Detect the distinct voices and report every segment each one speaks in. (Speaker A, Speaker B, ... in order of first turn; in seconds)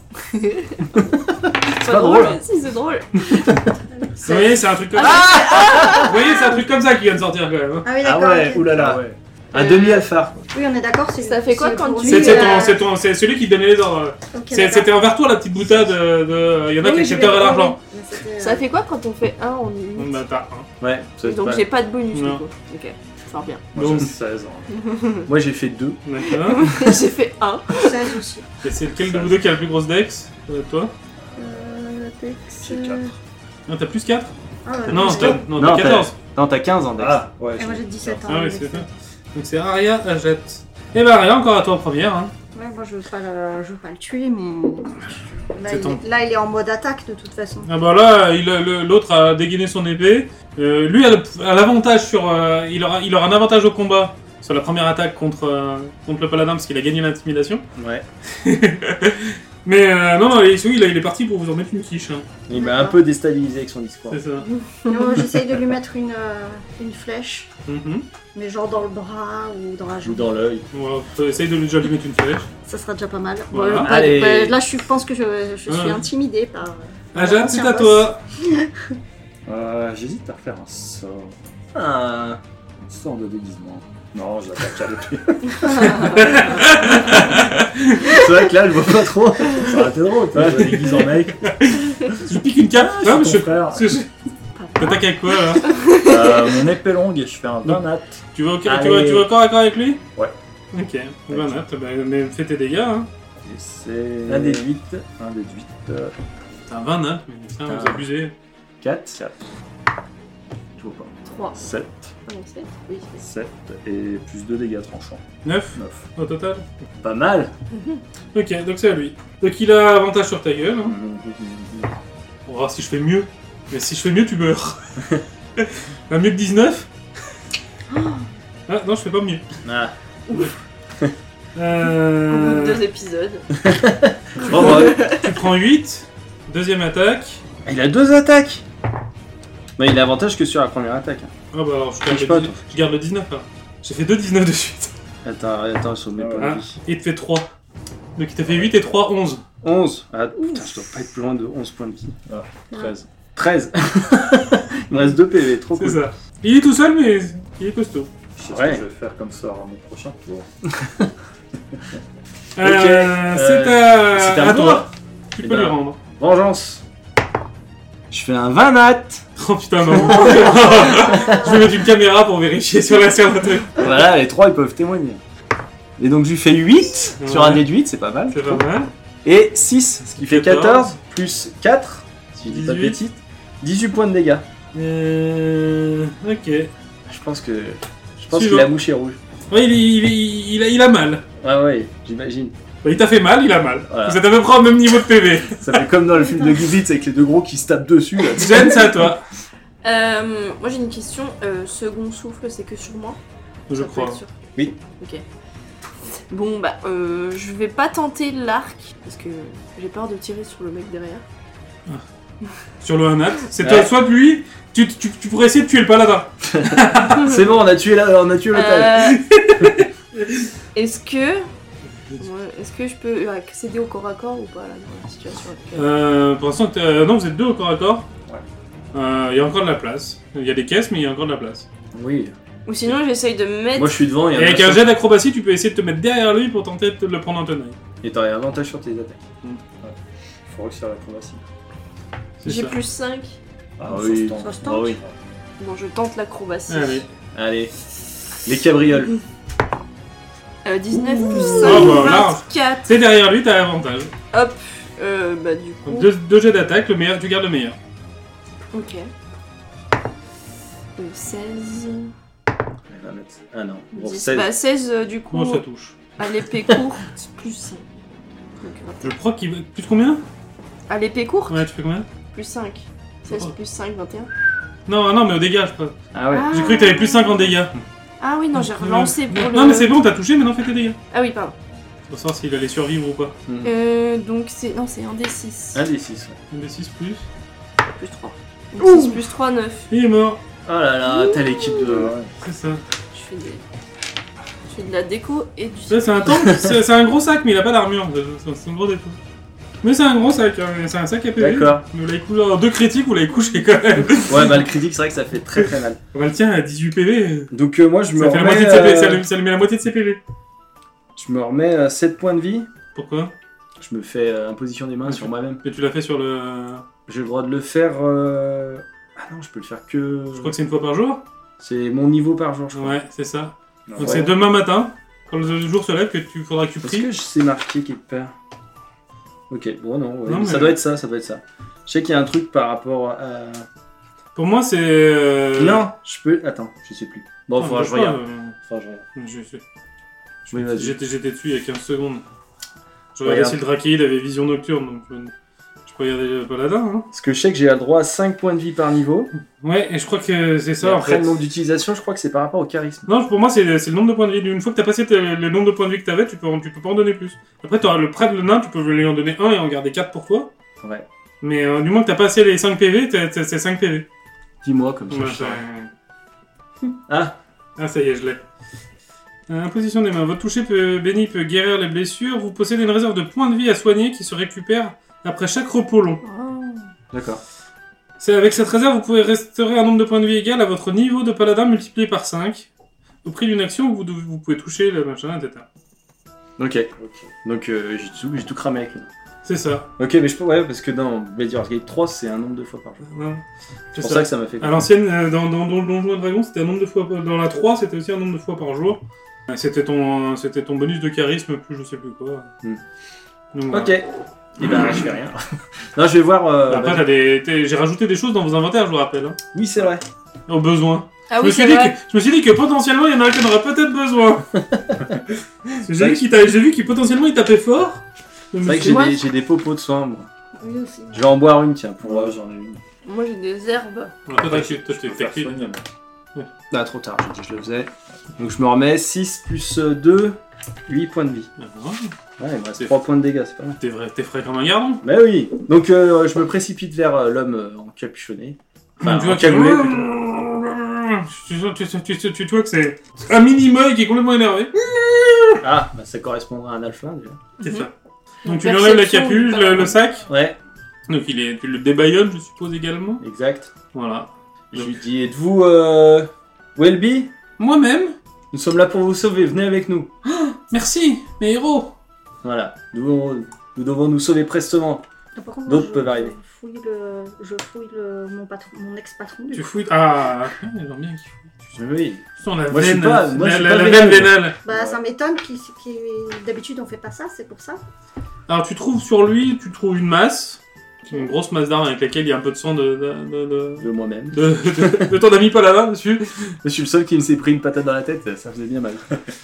Speaker A: 0.4-0.8, 1.7-3.5, 5.0-6.1, 9.5-10.1, 11.2-12.7, 18.4-20.2, 21.2-23.6, 24.8-25.3, 26.3-28.2, 64.5-65.2, 94.6-96.6, 111.2-111.7, 112.3-113.1, 117.7-118.0, 127.9-128.2, 132.3-133.5, 134.5-135.3, 199.8-203.2, 203.7-204.3, 205.0-205.2, 206.3-211.2, 218.5-219.2, 220.7-221.5, 222.2-225.9, 232.7-234.0, 242.4-243.4, 245.6-247.1, 250.6-252.8, 254.3-256.1, 258.7-259.1, 260.9-262.1, 263.9-265.6, 266.2-267.8, 268.6-269.1, 270.9-271.6, 272.3-274.3, 276.3-277.5, 278.2-279.9, 281.1-281.5, 283.6-285.8, 287.9-289.9, 291.0-291.9, 293.1-293.6, 294.7-296.3, 376.2-376.9, 411.3-411.9, 418.8-419.2, 423.0-424.2, 447.6-447.9, 448.4-450.0
Speaker B: 0.9-2.4, 3.3-3.7, 5.0-6.1, 8.0-10.4, 20.8-21.6, 25.3-26.0, 34.9-37.2, 57.8-58.0, 62.5-64.2, 70.0-70.7, 73.8-74.6, 81.7-82.4, 88.0-90.9, 98.6-99.3, 101.3-101.6, 104.2-104.8, 107.7-108.0, 108.8-109.2, 110.8-111.1, 117.0-117.5, 120.8-121.9, 129.6-129.9, 133.6-135.0, 137.7-138.6, 139.8-141.3, 142.0-142.6, 145.2-146.7, 149.6-152.1, 153.3-156.0, 158.5-158.8, 160.7-161.1, 162.6-164.9, 165.4-166.8, 168.1-169.2, 169.9-171.4, 173.8-175.2, 176.0-178.6, 179.2-184.4, 187.1-189.2, 191.4-192.5, 193.9-194.2, 195.6-199.1, 213.6-213.9, 216.4-219.1, 231.9-232.3, 233.7-234.9, 238.0-239.2, 243.9-245.0, 247.3-247.7, 248.4-249.1, 250.9-252.1, 262.9-264.5, 276.1-276.5, 283.4-283.7, 285.7-286.4, 290.6-292.1, 296.4-296.7, 301.4-301.8, 304.3-306.0, 307.5-309.2, 311.1-312.7, 313.8-315.6, 317.1-320.5, 321.6-323.0, 324.0-324.3, 326.8-328.3, 329.5-333.6, 335.6-339.0, 340.5-341.0, 343.2-343.6, 347.1-349.3, 350.8-353.1, 364.6-365.6, 367.1-367.4, 377.1-377.4, 386.6-386.9, 387.4-389.1, 390.0-393.0, 394.0-394.9, 403.7-404.1, 404.6-405.4, 405.9-407.1, 409.5-410.0, 414.5-415.1, 415.9-416.3, 418.6-420.3, 421.1-422.3, 426.7-431.5, 432.4-433.8, 435.0-440.1, 445.6-447.4, 450.3-450.6, 453.2-453.7, 454.7-457.3, 458.5-460.1, 462.4-465.0, 465.6-466.3, 471.7-475.0, 483.8-485.1, 486.6-489.2
Speaker C: 4.0-4.6, 6.0-6.5, 7.8-9.0, 10.5-12.8, 14.3-14.9, 16.8-18.6, 27.8-28.5, 31.4-33.1, 34.6-35.4, 37.6-38.9, 42.5-47.7, 62.5-63.0, 64.9-67.5, 68.3-70.3, 72.6-79.0, 244.4-244.9, 420.6-421.3, 465.3-469.8, 474.6-477.8
Speaker D: 4.2-7.9, 12.0-17.8, 19.9-20.7, 22.1-22.4, 23.8-24.1, 26.0-26.7, 28.6-30.9, 33.7-34.3, 34.9-36.1, 38.3-42.3, 45.6-46.0, 47.6-57.6, 58.4-62.3, 64.1-64.5, 67.7-68.1, 70.7-72.5, 73.5-73.9, 75.7-76.0, 77.1-78.2, 85.7-88.1, 91.4-94.1, 94.8-95.7, 97.6-100.0, 100.7-103.1, 106.7-108.3, 115.4-116.7, 118.3-121.0, 122.5-125.0, 125.6-126.9, 128.7-129.4, 131.5-132.8, 134.5-137.4, 141.5-144.9, 146.4-147.5, 148.2-149.4, 155.8-158.1, 162.6-166.0, 169.4-173.8, 177.2-177.7, 178.3-178.9, 180.2-181.0, 182.4-183.0, 184.7-186.7, 188.3-188.7, 189.5-191.2, 192.8-195.8, 198.4-199.2, 203.7-204.2, 212.8-217.3, 219.0-220.5, 225.7-228.1, 228.9-231.7, 234.3-237.8, 242.4-242.8, 246.7-247.0, 251.6-254.1, 255.8-257.8, 265.3-265.9, 269.0-270.2, 271.5-272.1, 273.3-273.5, 274.9-275.9, 276.5-277.7, 278.5-281.0, 282.1-283.4, 286.5-287.3, 289.9-290.4, 292.4-292.8, 295.9-299.2, 299.8-304.6, 305.6-307.5, 308.1-310.2, 312.9-313.3, 315.1-316.8, 320.3-321.2, 322.7-327.1, 330.2-330.8, 334.3-335.9, 337.6-338.6, 339.1-339.6, 340.4-342.2, 343.1-345.3, 345.9-347.1, 349.4-351.4, 353.1-360.5, 361.4-364.1, 365.1-365.9, 367.8-368.4, 369.5-376.2, 378.2-382.7, 383.2-385.6, 389.4-389.9, 393.0-402.5, 403.5-404.0, 406.7-409.4, 410.5-414.5, 415.8-419.1, 424.3-425.7, 431.6-432.1, 433.8-435.0, 439.0-445.5, 447.6-447.9, 448.4-450.2, 451.1-453.2, 453.9-454.9, 457.6-458.1, 460.2-461.9, 469.5-471.8, 472.4-474.6, 478.5-486.4
Speaker E: 8.7-9.2, 23.7-24.8, 28.9-29.4, 32.6-33.1, 37.0-38.3, 79.5-81.3, 82.8-86.6, 89.6-91.5, 92.1-94.0, 95.9-98.2, 103.5-106.1, 111.5-112.1, 113.2-115.2, 115.7-116.1, 146.2-146.6, 152.3-153.1, 158.3-160.5, 239.8-241.4, 243.8-245.1, 291.8-292.3, 323.9-324.3, 387.0-387.3, 422.0-422.8, 424.3-425.8